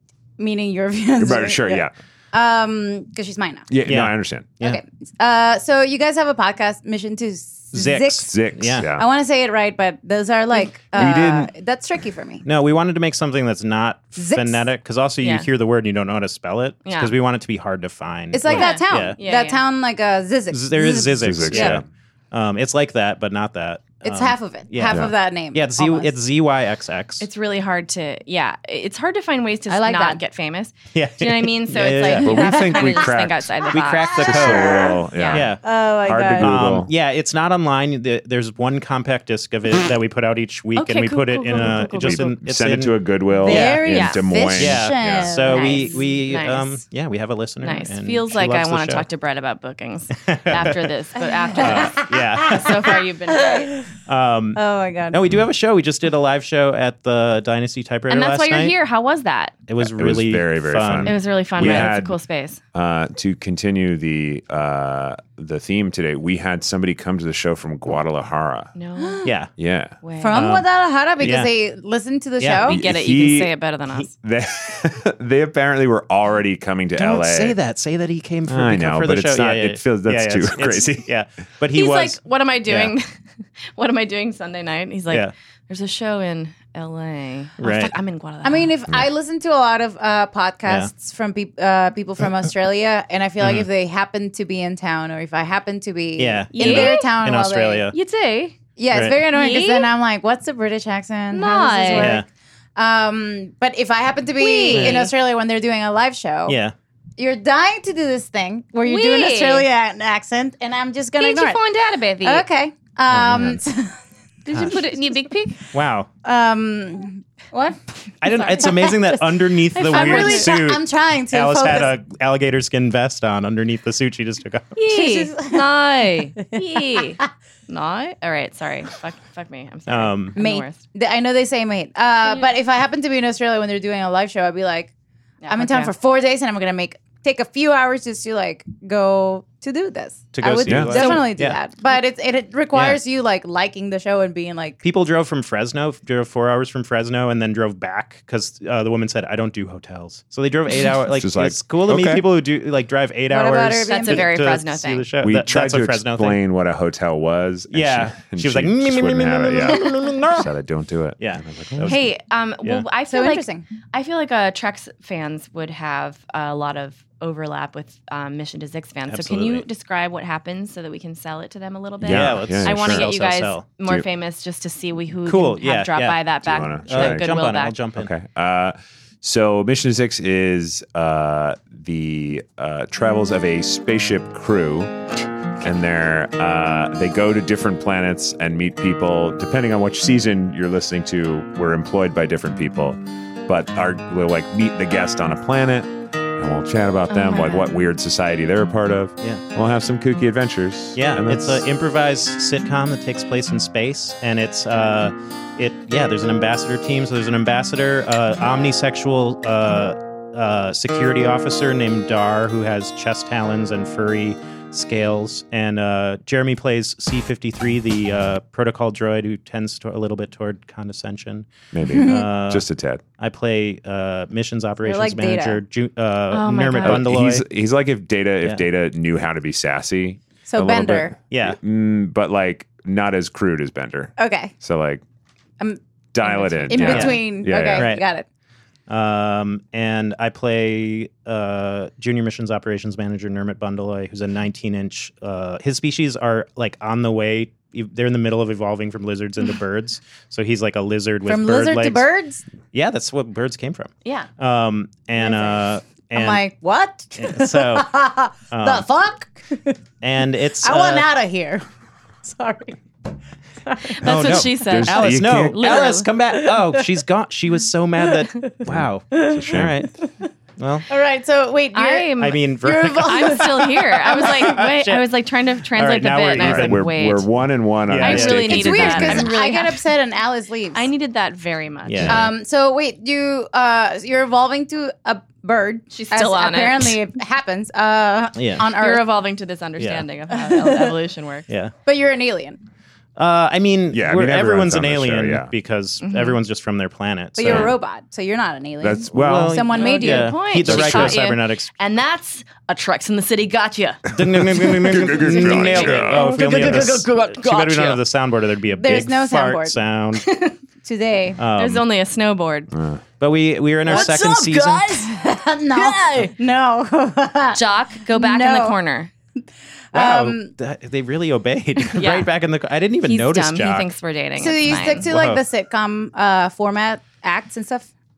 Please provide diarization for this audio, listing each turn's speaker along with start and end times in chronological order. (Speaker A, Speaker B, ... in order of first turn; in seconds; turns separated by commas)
Speaker A: 0.4-3.7, Speaker B: 1.2-1.9, Speaker B: 3.7-4.6, Speaker C: 3.9-4.8, Speaker A: 4.6-8.3, Speaker C: 7.7-8.9, Speaker B: 8.3-9.1, Speaker A: 8.9-12.4, Speaker B: 10.9-11.5, Speaker C: 12.4-19.2, Speaker A: 14.2-14.6, Speaker D: 15.2-15.5, Speaker D: 16.9-17.1, Speaker A: 18.3-21.8, Speaker D: 18.5-19.6, Speaker C: 20.5-27.3, Speaker B: 21.1-21.9, Speaker A: 24.0-26.1, Speaker B: 24.9-25.1, Speaker D: 27.2-35.4, Speaker A: 29.7-30.2, Speaker C: 30.9-32.4, Speaker B: 32.2-36.9, Speaker A: 32.3-33.1, Speaker C: 33.7-35.6, Speaker A: 34.3-35.0, Speaker A: 35.6-36.5, Speaker C: 36.4-43.9, Speaker D: 40.8-42.3, Speaker B: 41.9-45.4, Speaker A: 43.4-46.0, Speaker D: 43.9-44.3, Speaker C: 44.5-49.1, Speaker D: 45.5-46.8, Speaker D: 47.6-53.7, Speaker C: 50.2-50.9, Speaker A: 51.2-53.9, Speaker C: 51.6-52.8, Speaker C: 54.1-58.8, Speaker A: 54.6-55.2, Speaker D: 58.1-59.6, Speaker C: 59.7-62.0, Speaker B: 59.8-62.2, Speaker D: 61.0-62.6, Speaker B: 62.7-68.7, Speaker D: 68.8-69.2, Speaker A: 69.0-69.3, Speaker C: 69.2-69.5, Speaker B: 69.6-70.0, Speaker D: 70.0-70.4, Speaker A: 70.2-72.8, Speaker C: 70.3-70.7, Speaker C: 71.2-71.5, Speaker C: 72.4-72.8, Speaker B: 72.7-73.5, Speaker D: 72.7-74.1, Speaker B: 74.2-77.6, Speaker C: 77.0-82.9, Speaker B: 78.5-81.1, Speaker D: 81.7-83.1, Speaker D: 83.8-88.7, Speaker C: 87.6-87.9, Speaker A: 88.4-97.9, Speaker C: 96.2-98.0, Speaker D: 96.5-97.2, Speaker D: 97.9-98.6, Speaker A: 98.8-106.6, Speaker C: 98.9-99.2, Speaker D: 99.3-99.9, Speaker D: 101.3-102.2, Speaker C: 102.0-102.3, Speaker D: 104.4-105.1, Speaker C: 104.7-105.1, Speaker C: 106.5-106.7, Speaker A: 107.2-111.6, Speaker D: 108.8-109.7, Speaker D: 111.2-112.5, Speaker A: 112.2-114.0, Speaker C: 113.1-113.6, Speaker D: 114.5-115.6, Speaker C: 114.5-114.8, Speaker C: 115.7-116.1, Speaker A: 116.2-121.9, Speaker C: 118.2-124.7, Speaker D: 119.9-120.5, Speaker D: 124.8-130.8, Speaker A: 124.8-125.8, Speaker A: 126.5-127.3, Speaker C: 129.9-130.3, Speaker A: 130.4-134.9, Speaker D: 132.2-132.5, Speaker D: 135.4-135.9, Speaker A: 135.5-144.8, Speaker C: 140.3-141.6, Speaker B: 140.7-141.0, Speaker D: 140.9-141.3, Speaker C: 142.7-143.0, Speaker C: 144.8-156.4, Speaker B: 151.1-152.3, Speaker A: 153.3-154.3, Speaker D: 153.9-155.1, Speaker B: 155.2-161.9, Speaker C: 157.7-160.5, Speaker C: 161.2-162.8, Speaker D: 161.9-177.8, Speaker A: 163.1-163.7, Speaker C: 169.1-169.7, Speaker B: 172.0-173.1, Speaker C: 172.0-173.7, Speaker C: 175.3-176.2, Speaker B: 176.4-177.3, Speaker C: 176.9-178.1, Speaker B: 177.9-184.9, Speaker B: 185.6-201.7, Speaker D: 197.1-197.7, Speaker C: 201.0-222.7, Speaker B: 221.7-223.0, Speaker A: 221.9-222.3, Speaker C: 223.2-227.4, Speaker A: 224.8-225.6, Speaker D: 226.3-227.1, Speaker B: 226.8-235.0, Speaker A: 230.5-231.2, Speaker C: 231.3-231.6, Speaker A: 234.2-234.5, Speaker A: 235.6-238.3, Speaker B: 236.1-237.9, Speaker C: 236.7-238.1, Speaker C: 238.9-252.1, Speaker A: 251.3-252.4, Speaker C: 252.7-256.4, Speaker A: 255.2-259.8, Speaker C: 257.2-257.9, Speaker C: 258.5-258.9, Speaker C: 260.0-261.1, Speaker A: 260.6-261.6, Speaker A: 262.2-262.8, Speaker A: 263.7-264.0, Speaker D: 264.0-266.1, Speaker C: 264.0-269.9, Speaker B: 264.3-265.6, Speaker A: 266.4-266.8, Speaker A: 268.2-268.6, Speaker B: 268.7-269.8, Speaker A: 269.1-270.1, Speaker C: 270.6-270.9, Speaker A: 270.9-274.6, Speaker D: 271.7-272.4, Speaker C: 272.2-273.6, Speaker D: 273.0-277.3, Speaker C: 274.1-275.1, Speaker C: 275.7-276.9, Speaker B: 276.4-279.3, Speaker C: 277.9-279.2, Speaker D: 278.0-279.8, Speaker A: 278.5-280.9, Speaker D: 280.7-282.2, Speaker C: 281.9-282.3, Speaker A: 282.1-289.1, Speaker D: 285.9-287.0, Speaker C: 288.4-288.7, Speaker D: 288.8-291.5, Speaker C: 289.8-290.1, Speaker A: 290.3-290.9, Speaker C: 291.5-291.7, Speaker A: 291.9-292.6, Speaker C: 293.2-297.7, Speaker B: 293.9-295.5, Speaker D: 296.0-296.4, Speaker A: 297.4-300.4, Speaker B: 297.4-297.7, Speaker B: 298.8-299.6, Speaker C: 299.1-301.7, Speaker D: 299.7-304.0, Speaker B: 300.7-301.1, Speaker C: 304.1-310.3, Speaker B: 304.2-306.9, Speaker D: 305.0-308.0, Speaker A: 308.8-309.8, Speaker A: 310.8-311.4, Speaker C: 311.4-311.9, Speaker D: 311.6-312.7, Speaker B: 312.7-313.0, Speaker C: 313.2-315.0, Speaker A: 313.9-314.4, Speaker D: 313.9-315.1, Speaker A: 314.9-318.8, Speaker D: 315.8-316.3, Speaker D: 317.5-319.1, Speaker A: 319.9-320.5, Speaker C: 319.9-323.9, Speaker D: 321.8-322.3, Speaker D: 323.0-325.1, Speaker A: 324.4-327.9, Speaker C: 324.8-325.4